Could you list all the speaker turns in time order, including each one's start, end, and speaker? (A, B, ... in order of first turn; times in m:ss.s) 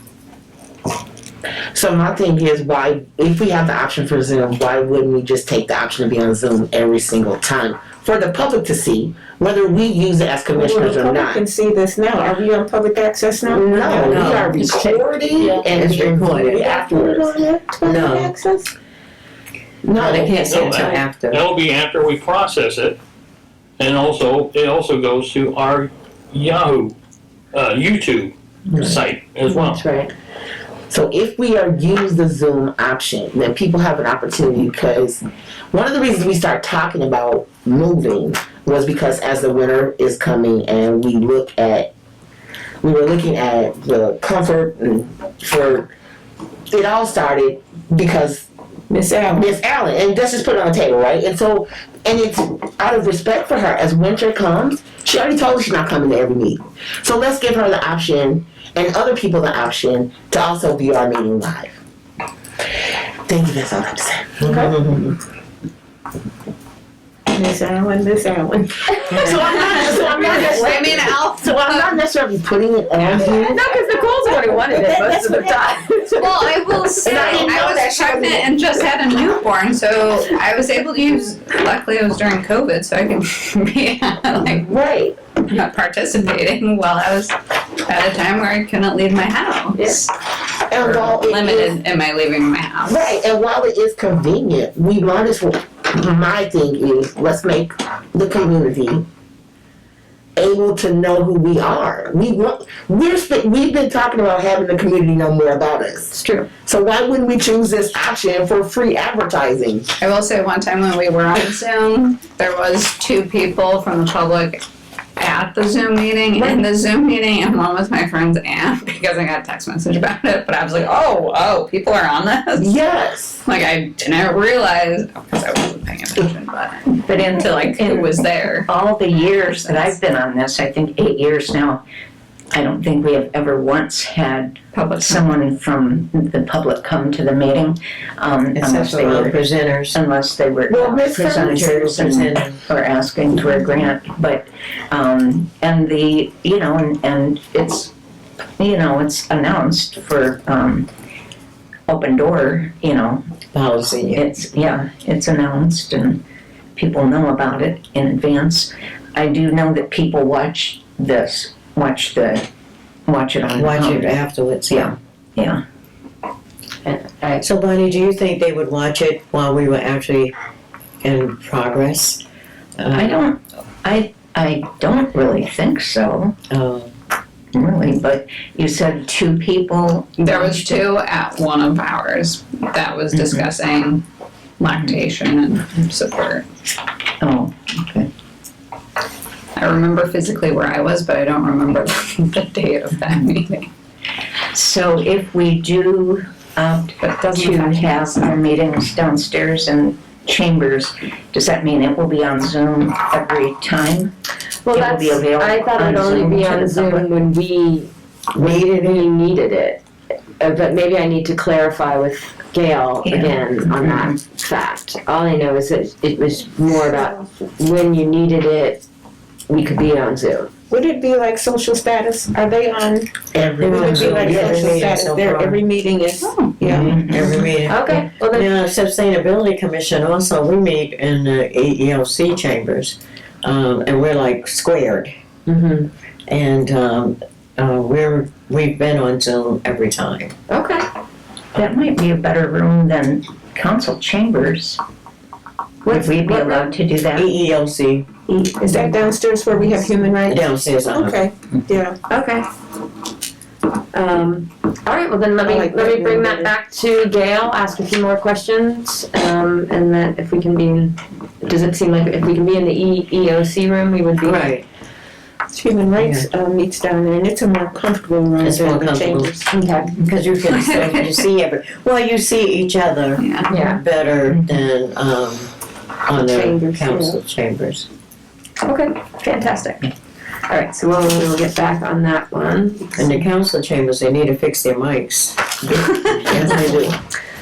0:01.7-0:11.4 A
0:10.5-0:14.4 B
0:13.4-0:17.3 A
0:14.0-0:14.9 C
0:15.4-0:16.6 C
0:16.6-0:18.7 B
0:17.8-0:18.3 C
0:19.8-0:20.9 A
0:20.0-0:21.4 C
0:20.0-0:23.0 D
0:23.8-0:26.9 D
0:27.5-0:29.8 D
0:29.5-0:30.1 E
0:30.9-0:41.9 A
0:42.8-0:45.9 A
0:46.7-0:48.5 A
0:48.9-0:49.5 B
0:49.3-1:01.8 A
1:03.3-1:04.8 A
1:04.4-1:05.1 C
1:07.3-1:09.4 B
1:09.1-1:13.6 A
1:09.5-1:12.0 F
1:13.3-1:16.3 E
1:16.2-1:24.6 F
1:17.0-1:18.4 A
1:24.4-1:25.2 A
1:25.5-1:27.3 F
1:27.8-1:30.1 F
1:29.8-1:30.0 E
1:30.7-1:31.8 A
1:30.8-1:33.1 F
1:32.8-1:39.0 A
1:40.4-1:49.9 A
1:46.2-1:46.5 F
1:50.0-1:54.6 F
1:55.2-2:02.8 F
2:02.6-2:03.4 A
2:03.4-2:08.7 F
2:08.7-2:11.8 G
2:09.4-2:09.9 F
2:12.5-2:27.9 G
2:14.7-2:15.3 F
2:18.6-2:20.0 C
2:20.7-2:21.6 A
2:21.2-2:22.6 C
2:28.6-2:30.9 G
2:31.9-2:33.2 G
2:33.5-2:34.2 C
2:34.1-2:36.2 G
2:36.8-2:42.5 G
2:43.1-2:44.2 G
2:43.5-2:44.9 C
2:44.7-2:45.6 G
2:46.8-2:47.4 E
2:47.4-2:50.3 C
2:51.0-2:52.2 C
2:52.8-2:53.2 C
2:52.9-2:56.3 G
2:56.5-2:56.9 C
2:57.5-3:00.9 G
3:00.2-3:04.0 F
3:03.1-3:03.5 G
3:04.6-3:06.4 F
3:04.7-3:05.0 G
3:07.2-3:08.1 G
3:09.6-3:13.7 F
3:14.5-3:24.1 G
3:24.6-3:29.8 E
3:24.7-3:27.0 G
3:28.3-3:29.1 C
3:30.4-3:38.8 E
3:33.0-3:34.2 G
3:39.5-3:40.5 E
3:40.7-3:43.1 B
3:43.3-3:45.0 A
3:43.6-3:45.6 C
3:43.6-3:47.4 B
3:46.2-3:46.6 F
3:46.6-3:55.1 C
3:46.7-3:47.3 G
3:47.6-3:48.5 E
3:55.5-3:55.9 E
3:56.3-4:00.3 C
4:00.5-4:00.8 E
4:01.6-4:04.8 G
4:05.8-4:07.3 G
4:05.9-4:06.6 E
4:07.1-4:08.1 C
4:08.3-4:12.0 B
4:08.6-4:08.9 E
4:10.3-4:11.3 C
4:12.0-4:12.4 E
4:13.9-4:24.5 E
4:15.4-4:16.5 B
4:24.2-4:24.6 C
4:25.5-4:29.4 B
4:26.0-4:26.3 C
4:28.4-4:29.3 C
4:29.5-4:29.9 E
4:30.0-4:35.5 C
4:30.5-4:31.2 F
4:33.2-4:33.5 F
4:33.5-4:33.8 E
4:36.0-4:37.9 C
4:36.3-4:36.9 E
4:36.7-4:37.1 B
4:38.6-4:39.9 E
4:40.5-4:43.0 E
4:43.0-4:47.0 C
4:46.4-4:46.7 E